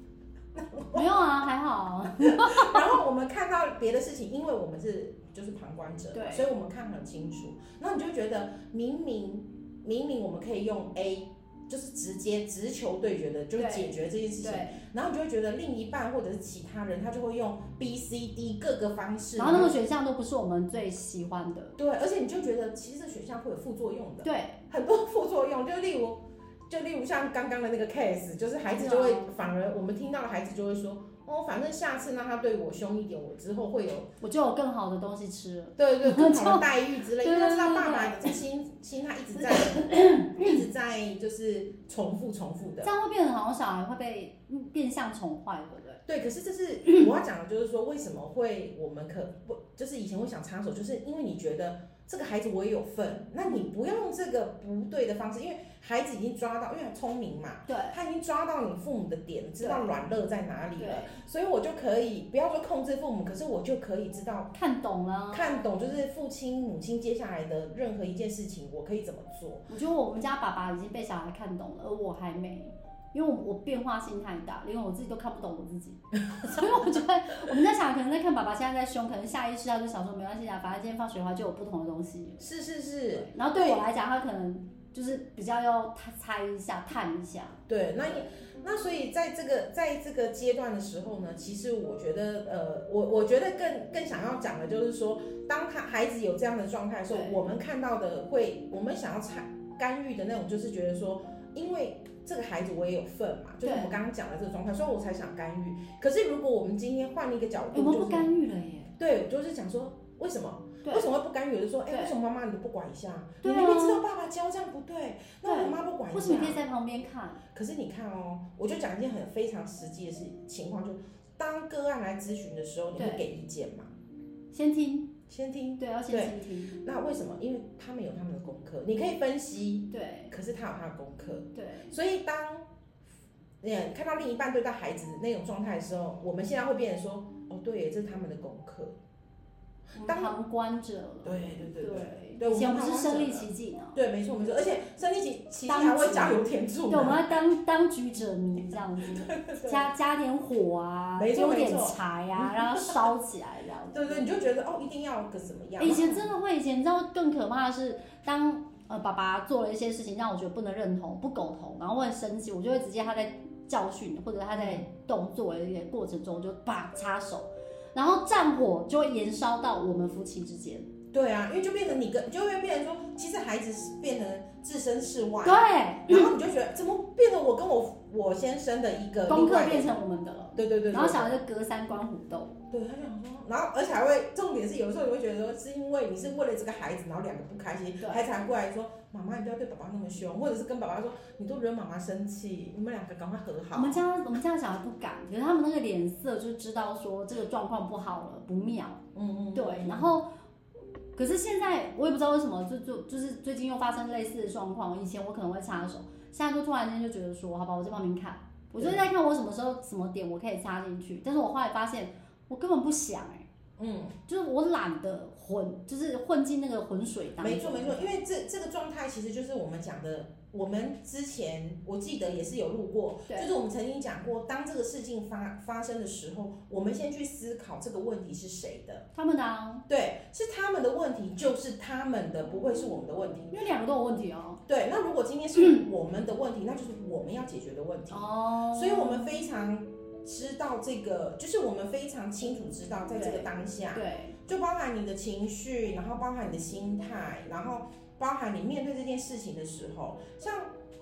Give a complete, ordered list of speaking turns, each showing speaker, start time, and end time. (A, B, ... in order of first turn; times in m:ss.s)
0:00.5-0:01.1 A
0:00.9-0:02.9 B
0:02.1-0:19.8 A
0:06.1-0:06.5 B
0:13.6-0:14.8 B
0:19.4-0:21.8 B
0:21.8-0:34.1 A
0:24.2-0:24.6 B
0:28.7-0:29.3 B
0:34.2-0:38.4 B
0:35.8-0:42.9 A
0:39.4-0:40.6 B
0:42.8-0:46.0 B
0:46.1-1:04.5 A
0:57.7-0:58.0 B
0:59.6-0:59.9 B
1:00.8-1:01.2 B
1:04.5-1:05.7 B
1:05.3-1:09.7 A
1:09.7-1:22.5 B
1:22.4-1:23.8 A
1:23.1-1:28.2 B
1:27.7-1:48.3 A
1:37.1-1:37.4 B
1:43.6-1:44.0 B
1:47.7-1:48.9 B
1:49.0-1:56.6 A
1:53.4-1:54.0 B
1:55.4-1:57.4 B
1:57.5-2:03.9 A
2:03.0-2:03.2 B
2:04.5-2:05.1 B
2:05.3-2:12.7 A
2:05.8-2:06.8 B
2:09.9-2:10.3 B
2:11.6-2:11.9 B
2:13.6-2:19.0 A
2:20.0-2:24.0 B
2:20.0-2:20.4 A
2:21.2-2:27.4 A
2:25.7-2:34.3 B
2:29.0-2:29.9 A
2:31.2-2:33.1 A
2:33.9-2:36.3 A
2:35.8-2:50.9 B
2:44.6-2:44.8 A
2:51.1-3:00.0 A
2:55.4-2:56.3 B
2:59.3-3:02.6 B
3:00.6-3:01.4 A
3:02.7-3:14.0 A
3:08.0-3:08.3 B
3:13.7-3:19.0 B
3:19.1-3:20.2 A
3:19.6-3:20.3 B
3:21.2-3:33.5 B
3:28.8-3:29.0 A
3:33.8-3:34.2 A
3:34.3-3:38.1 B
3:37.4-3:49.1 A
3:49.2-3:49.8 B
3:49.9-3:53.5 A
3:53.5-3:54.6 B
3:54.7-4:10.7 A
3:58.1-3:59.3 B
4:03.2-4:04.4 B